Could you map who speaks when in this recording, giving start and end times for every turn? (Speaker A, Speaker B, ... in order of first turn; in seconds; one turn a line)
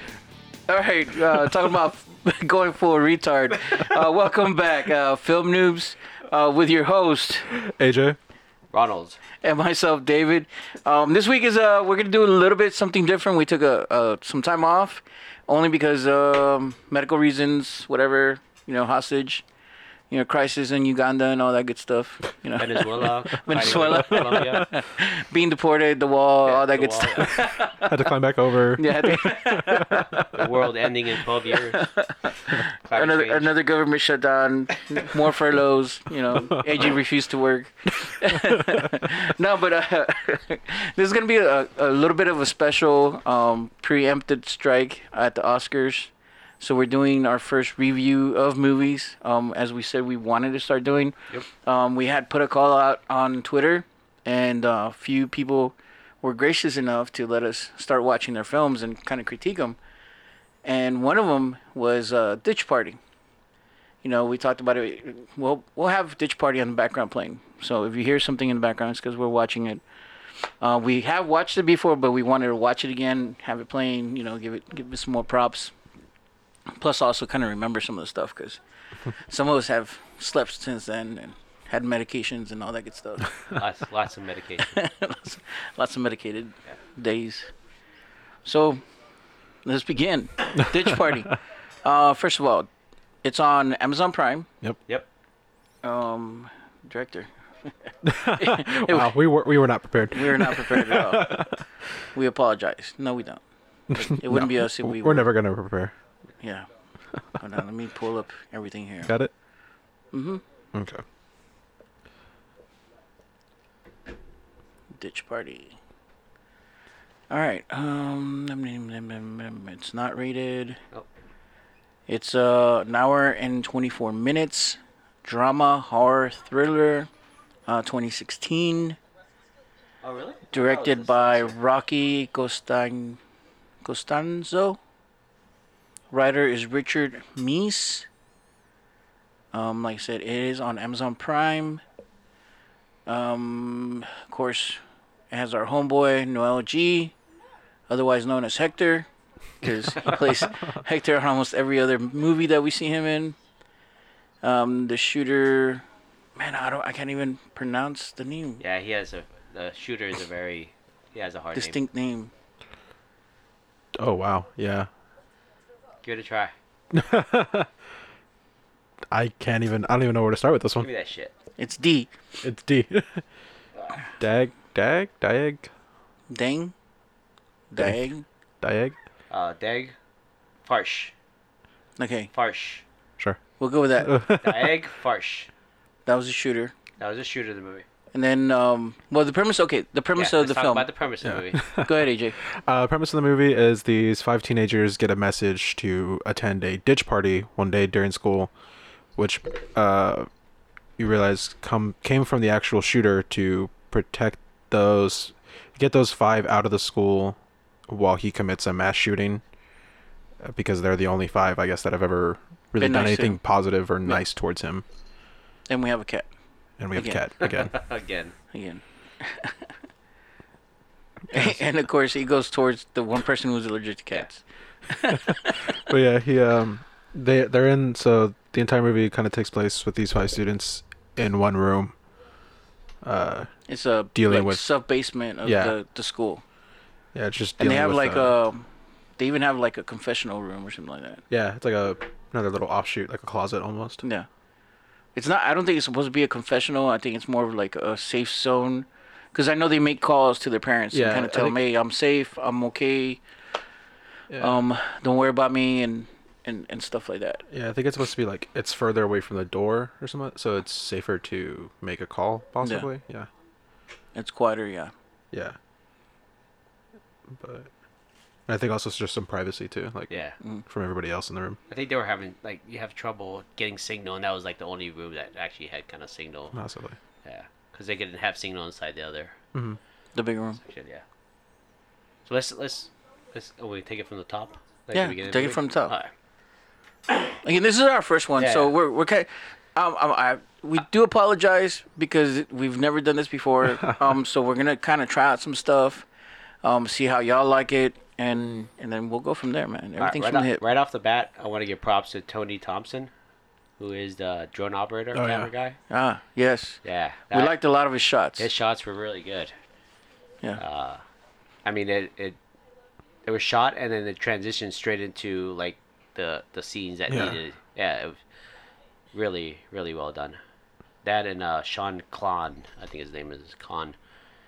Speaker A: 0.7-7.5
Speaker B: 7.5-8.2
Speaker C: 8.7-9.2
Speaker A: 9.4-19.4
Speaker A: 20.1-28.0
Speaker C: 22.6-24.7
Speaker B: 23.6-24.6
Speaker C: 26.4-27.5
Speaker B: 27.7-30.5
Speaker A: 28.8-30.3
Speaker C: 30.3-31.9
Speaker A: 31.5-59.8
Speaker C: 32.8-33.5
Speaker A: 60.6-63.0
Speaker A: 64.0-69.8
Speaker A: 70.4-75.7
Speaker A: 76.7-78.6
Speaker A: 79.3-83.5
Speaker C: 83.5-84.8
Speaker A: 84.6-87.5
Speaker A: 88.4-88.8
Speaker A: 89.6-92.7
Speaker A: 93.2-94.5
Speaker A: 95.8-99.2
Speaker B: 98.0-101.6
Speaker A: 100.1-101.5
Speaker A: 102.1-105.3
Speaker B: 103.9-105.9
Speaker A: 106.4-106.7
Speaker A: 107.3-109.1
Speaker B: 109.0-109.3
Speaker A: 110.1-110.4
Speaker B: 110.7-111.0
Speaker A: 115.0-115.8
Speaker A: 117.3-120.8
Speaker A: 122.1-127.1
Speaker A: 127.7-129.0
Speaker C: 130.0-131.5
Speaker A: 130.5-133.2
Speaker A: 133.8-134.8
Speaker A: 136.1-138.1
Speaker A: 139.5-141.8
Speaker A: 143.1-144.8
Speaker A: 145.3-147.1
Speaker A: 147.9-149.1
Speaker A: 149.6-153.3
Speaker A: 154.4-158.6
Speaker C: 158.6-161.8
Speaker A: 161.5-162.3
Speaker B: 164.0-164.9
Speaker C: 166.0-166.5
Speaker B: 166.9-167.7
Speaker B: 169.1-170.9
Speaker C: 170.8-171.3
Speaker A: 171.6-172.1
Speaker B: 172.4-173.2
Speaker C: 173.8-174.0
Speaker B: 174.2-175.7
Speaker A: 176.3-176.7
Speaker A: 177.7-178.2
Speaker B: 178.6-178.9
Speaker C: 179.3-179.9
Speaker C: 180.6-181.1
Speaker A: 182.0-182.3
Speaker C: 182.3-182.8
Speaker A: 183.6-184.2
Speaker B: 184.0-184.7
Speaker C: 184.4-185.5
Speaker A: 186.1-186.7
Speaker C: 187.0-187.8
Speaker A: 188.1-190.9
Speaker C: 190.1-191.6
Speaker B: 191.2-198.5
Speaker A: 191.8-192.3
Speaker B: 199.2-200.3
Speaker B: 201.0-209.4
Speaker B: 210.4-214.8
Speaker A: 212.8-213.4
Speaker A: 215.7-216.2
Speaker B: 216.8-217.7
Speaker A: 216.9-217.2
Speaker C: 217.4-218.3
Speaker A: 218.5-219.7
Speaker A: 221.3-225.8
Speaker B: 225.7-231.9
Speaker B: 233.0-233.5
Speaker A: 233.7-236.4
Speaker B: 234.1-234.6
Speaker B: 235.4-235.7
Speaker B: 237.1-238.3
Speaker A: 237.6-238.7
Speaker A: 239.2-241.2
Speaker B: 241.3-244.0
Speaker A: 244.0-244.3
Speaker A: 245.2-253.2
Speaker B: 250.9-251.6
Speaker B: 254.3-254.6
Speaker A: 254.4-257.4
Speaker B: 257.5-263.3
Speaker A: 262.6-262.9
Speaker A: 264.1-264.9
Speaker B: 265.3-265.6
Speaker B: 267.3-267.7
Speaker B: 268.5-270.1
Speaker C: 270.1-270.4
Speaker B: 270.6-271.6
Speaker C: 271.7-276.6
Speaker B: 276.5-276.9
Speaker C: 277.2-279.4
Speaker B: 279.5-279.8
Speaker A: 280.1-280.6
Speaker C: 280.6-281.0
Speaker C: 282.2-286.1
Speaker A: 284.9-285.9
Speaker A: 287.3-296.1
Speaker C: 288.4-288.7
Speaker A: 296.6-300.6
Speaker C: 300.0-303.1
Speaker C: 303.8-305.8
Speaker B: 305.1-305.5
Speaker A: 305.9-306.8
Speaker C: 306.8-307.5
Speaker A: 307.3-308.5
Speaker C: 308.4-309.5
Speaker C: 310.6-311.0
Speaker C: 311.6-312.4
Speaker C: 313.2-318.2
Speaker B: 317.1-317.4
Speaker C: 319.1-320.4
Speaker C: 321.0-323.9